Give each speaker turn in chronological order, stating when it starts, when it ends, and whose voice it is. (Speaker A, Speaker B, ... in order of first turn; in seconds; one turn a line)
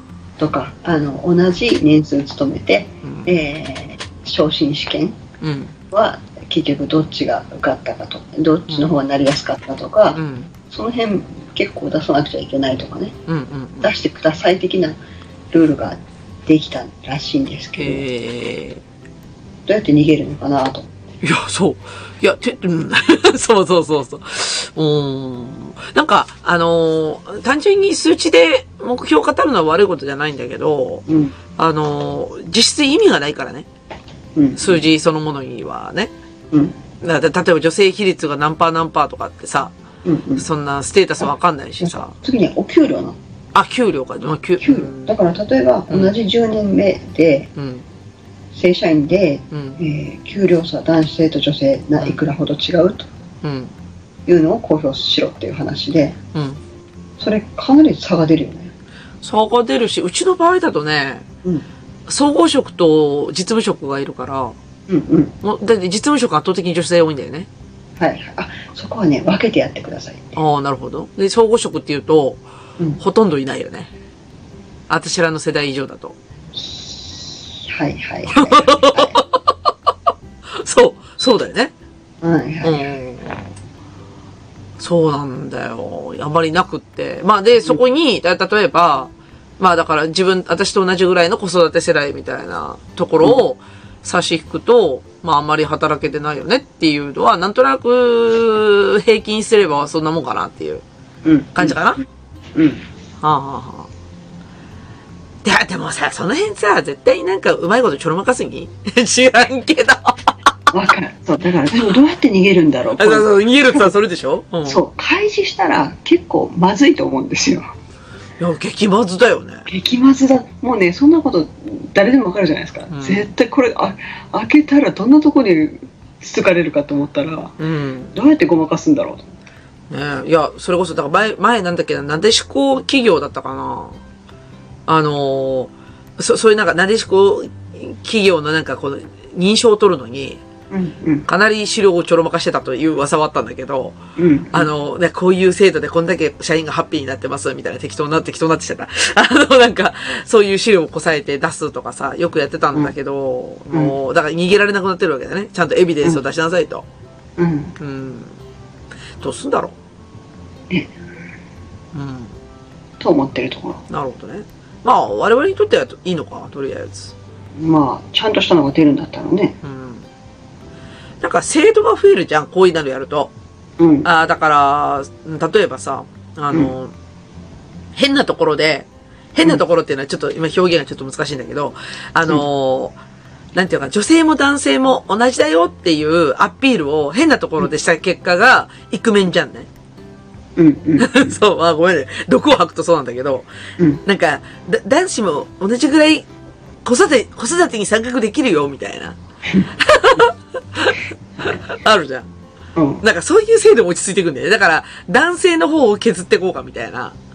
Speaker A: 0.4-5.2
Speaker B: 3.0-3.4
Speaker B: 5.4-5.7
Speaker A: 5.9-13.2
Speaker B: 10.1-10.5
Speaker B: 13.3-13.9
Speaker A: 13.8-15.0
Speaker A: 15.5-18.0
Speaker B: 17.8-18.8
Speaker A: 19.7-20.9
Speaker B: 21.2-31.1
Speaker A: 31.1-31.4
Speaker B: 31.6-33.7
Speaker A: 34.4-34.8
Speaker B: 34.6-36.1
Speaker B: 37.0-39.7
Speaker A: 40.0-40.5
Speaker B: 40.4-42.1
Speaker A: 41.8-43.2
Speaker B: 43.5-45.2
Speaker A: 44.6-47.5
Speaker B: 45.9-46.1
Speaker B: 47.6-47.9
Speaker A: 48.5-53.1
Speaker B: 49.5-49.8
Speaker B: 53.4-53.7
Speaker A: 54.3-56.2
Speaker B: 56.3-56.6
Speaker A: 57.2-58.7
Speaker B: 59.2-61.3
Speaker B: 62.1-64.6
Speaker A: 64.9-65.3
Speaker B: 65.4-67.5
Speaker A: 68.0-70.4
Speaker B: 70.4-72.4
Speaker B: 73.0-73.9
Speaker B: 74.9-76.2
Speaker A: 76.5-79.2
Speaker B: 78.3-79.7
Speaker B: 80.6-81.7
Speaker A: 82.2-83.0
Speaker B: 82.6-83.5
Speaker B: 84.8-100.8
Speaker A: 101.2-102.8
Speaker B: 101.5-102.0
Speaker B: 103.2-103.9
Speaker B: 105.4-110.3
Speaker A: 110.7-113.9
Speaker B: 113.0-114.8
Speaker A: 114.7-117.7
Speaker B: 118.4-119.7
Speaker A: 119.7-127.5
Speaker B: 122.9-123.3
Speaker B: 127.6-128.2
Speaker A: 128.1-129.3
Speaker B: 129.9-134.0
Speaker B: 134.9-140.4
Speaker A: 140.7-141.3
Speaker B: 141.3-144.0
Speaker A: 144.2-144.7
Speaker B: 144.5-156.8
Speaker A: 157.4-157.8
Speaker B: 157.8-158.3
Speaker B: 159.2-159.8
Speaker B: 161.9-162.3
Speaker A: 163.0-163.8
Speaker B: 163.9-167.1
Speaker A: 167.6-169.6
Speaker B: 169.6-170.1
Speaker B: 171.2-173.3
Speaker A: 173.8-174.1
Speaker B: 174.0-176.9
Speaker B: 177.9-183.0
Speaker B: 183.6-189.7
Speaker A: 190.6-191.2
Speaker B: 191.0-193.5
Speaker B: 194.0-196.3
Speaker B: 196.8-199.2
Speaker B: 199.7-202.3
Speaker A: 202.8-203.0
Speaker B: 203.0-207.2